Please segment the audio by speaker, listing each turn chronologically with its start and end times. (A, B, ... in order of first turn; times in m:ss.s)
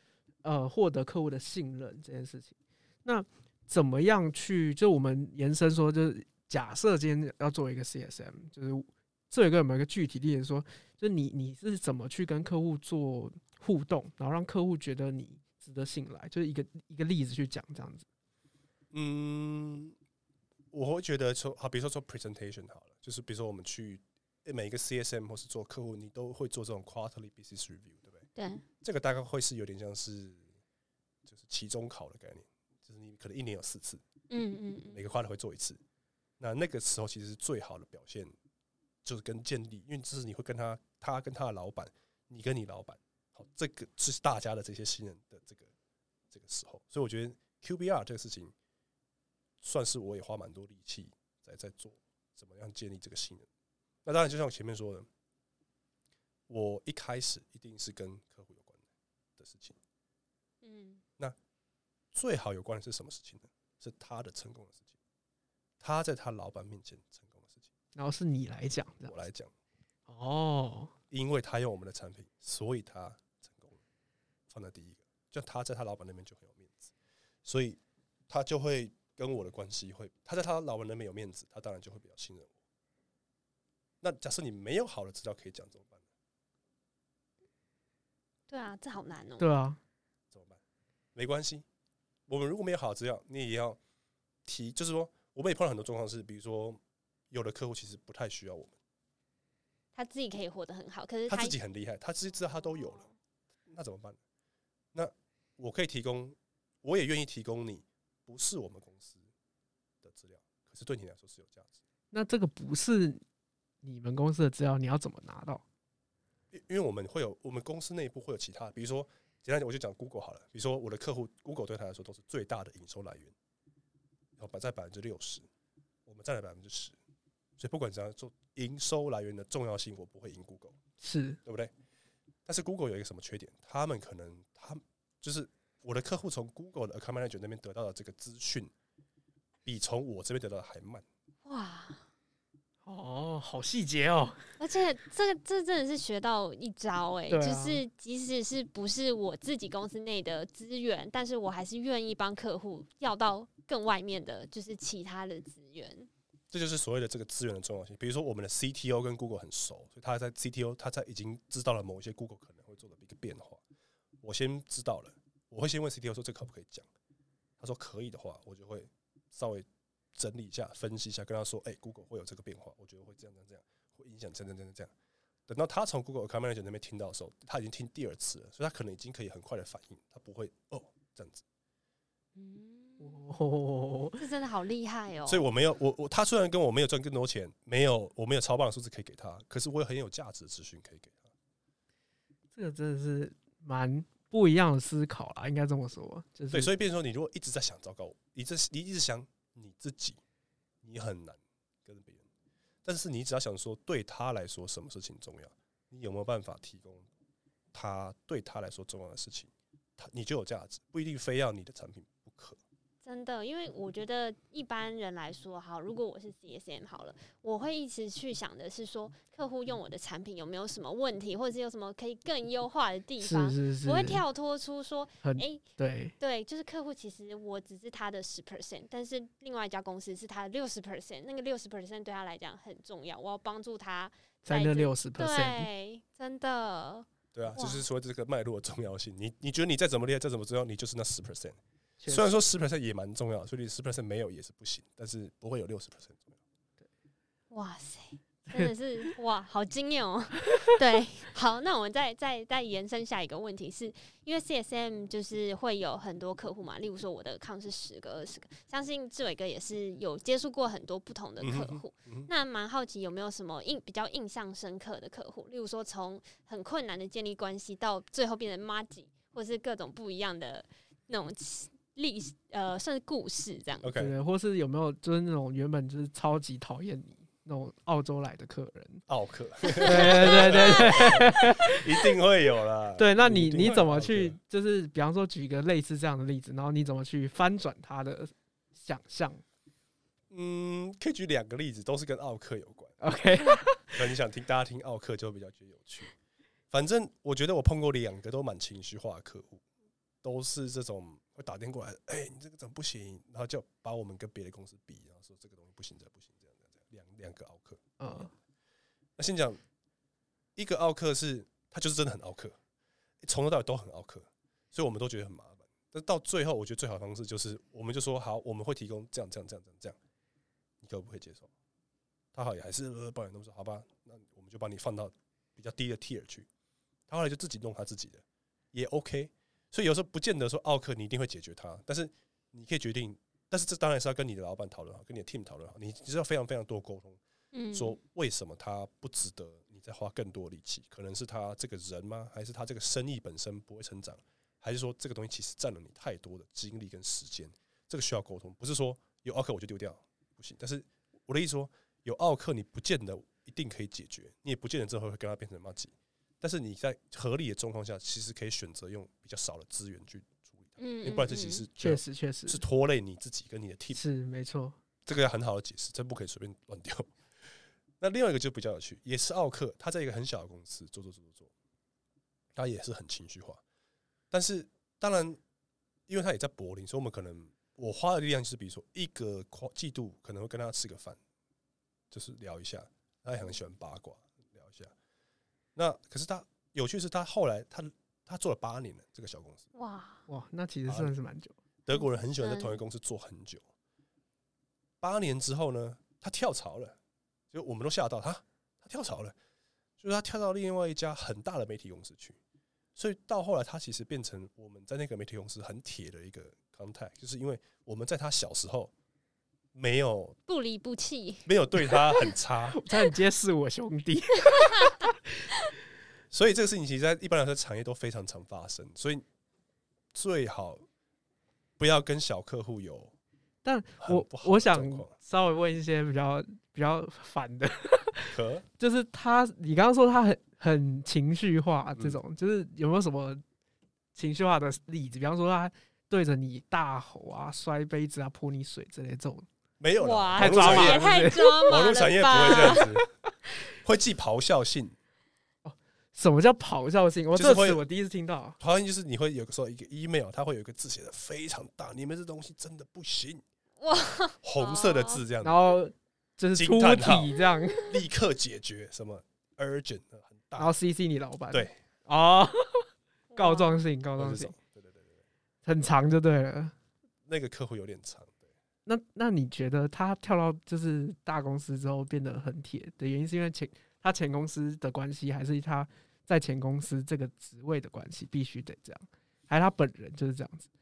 0:00.4-0:18.1 A
0:18.9-0:20.0 B
0:20.7-0:28.2 B
0:28.4-0:28.6 C
0:28.8-0:30.5 B
0:31.2-0:34.0 B
0:34.3-0:35.0 C
0:34.9-0:35.8 B
0:36.4-0:38.3 B
0:39.0-0:45.7 B
0:46.3-0:48.5 B
0:49.6-0:53.5 B
0:54.0-0:55.1 B
0:56.5-0:58.8 B
0:59.4-0:59.8 B
1:00.6-1:01.0 C
1:02.1-1:04.9 B
1:05.8-1:07.7 B
1:08.0-1:09.2 A
1:09.1-1:09.5 B
1:10.1-1:10.9 A
1:11.1-1:13.8 B
1:14.5-1:16.9 B
1:17.4-1:22.5 B
1:24.0-1:26.0 B
1:28.5-1:29.5 C
1:29.4-1:29.8 A
1:30.3-1:30.6 B
1:31.2-1:31.6 B
1:32.3-1:33.8 B
1:34.4-1:38.8 B
1:40.0-1:41.6 C
1:41.3-1:43.0 B
1:43.7-1:44.2 B
1:44.9-1:49.3 B
1:50.0-1:51.8 B
1:52.1-1:53.2 A
1:53.8-1:55.6 A
1:56.5-2:03.3 B
2:04.4-2:05.5 B
2:06.1-2:07.0 B
2:07.6-2:10.8 B
2:11.0-2:11.4 A
2:11.4-2:11.7 B
2:12.5-2:18.7 B
2:19.6-2:21.0 B
2:21.4-2:22.0 C
2:22.9-2:24.5 A
2:24.6-2:36.1 C
2:27.3-2:27.8 A
2:36.5-2:43.6 B
2:44.2-2:46.9 B
2:47.6-2:54.9 B
2:55.5-3:01.4 B
3:02.4-3:03.2 C
3:03.0-3:04.2 A
3:04.2-3:05.4 C
3:05.3-3:11.3 B
3:12.5-3:16.7 A
3:16.5-3:20.2 B
3:20.8-3:22.3 B
3:22.8-3:27.1 B
3:27.7-3:32.6 B
3:33.0-3:45.6 C
3:43.2-3:44.2 A
3:45.2-3:46.1 A
3:46.2-3:57.8 C
3:54.4-3:55.7 A
3:57.3-4:06.4 B
4:02.0-4:02.4 A
4:07.5-4:33.9 C
4:21.4-4:22.3 B
4:33.8-4:34.1 B
4:34.0-4:39.0 A
4:39.1-4:44.4 B
4:39.7-4:41.0 C
4:39.8-4:41.8 A
4:43.0-4:49.4 A
4:50.3-4:53.0 B
4:53.0-4:54.0 A
4:53.9-4:56.1 B
4:56.7-4:59.6 B
5:00.2-5:08.3 B
5:08.0-5:08.3 A
5:09.2-5:09.6 B
5:10.6-5:12.6 B
5:13.2-5:20.0 B
5:20.8-5:21.5 B
5:22.3-5:26.5 B
5:27.1-5:37.2 B
5:37.5-5:38.0 C
5:37.7-6:04.0 B
6:00.8-6:01.6 C
6:01.8-6:02.6 A
6:03.9-6:04.8 A
6:05.0-6:07.2 B
6:08.0-6:11.5 B
6:12.6-6:13.6 B
6:14.3-6:15.4 B
6:16.1-6:21.2 B
6:22.1-6:24.9 B
6:25.8-6:29.7 B
6:29.8-6:30.2 C
6:30.3-6:31.6 A
6:30.9-6:31.1 B
6:31.9-6:33.7 B
6:31.9-6:32.8 C
6:35.0-6:37.0 B
6:37.5-6:39.4 B
6:40.0-6:42.4 B
6:43.0-6:48.9 B
6:49.7-6:50.4 B
6:50.5-6:51.5 C
6:51.5-6:52.8 B
6:52.7-6:55.1 A
6:56.3-6:59.2 B
7:00.1-7:00.8 B
7:01.8-7:03.1 B
7:03.6-7:13.4 A
7:04.0-7:05.1 B
7:08.3-7:08.6 B
7:14.1-7:19.5 A
7:19.8-7:23.0 B
7:20.0-7:22.8 C
7:20.4-7:23.0 A
7:23.8-7:25.0 B
7:25.6-7:28.6 A
7:27.3-7:27.8 B
7:28.6-7:33.4 B
7:33.8-7:35.2 C
7:34.4-7:35.6 B
7:35.4-7:37.9 A
7:36.5-7:37.3 B
7:37.8-7:40.8 B
7:40.6-7:44.6 A
7:41.5-7:41.8 B
7:43.3-7:43.8 C
7:44.2-7:45.2 B
7:45.6-7:46.7 A
7:47.3-7:48.5 B
7:48.9-8:00.7 A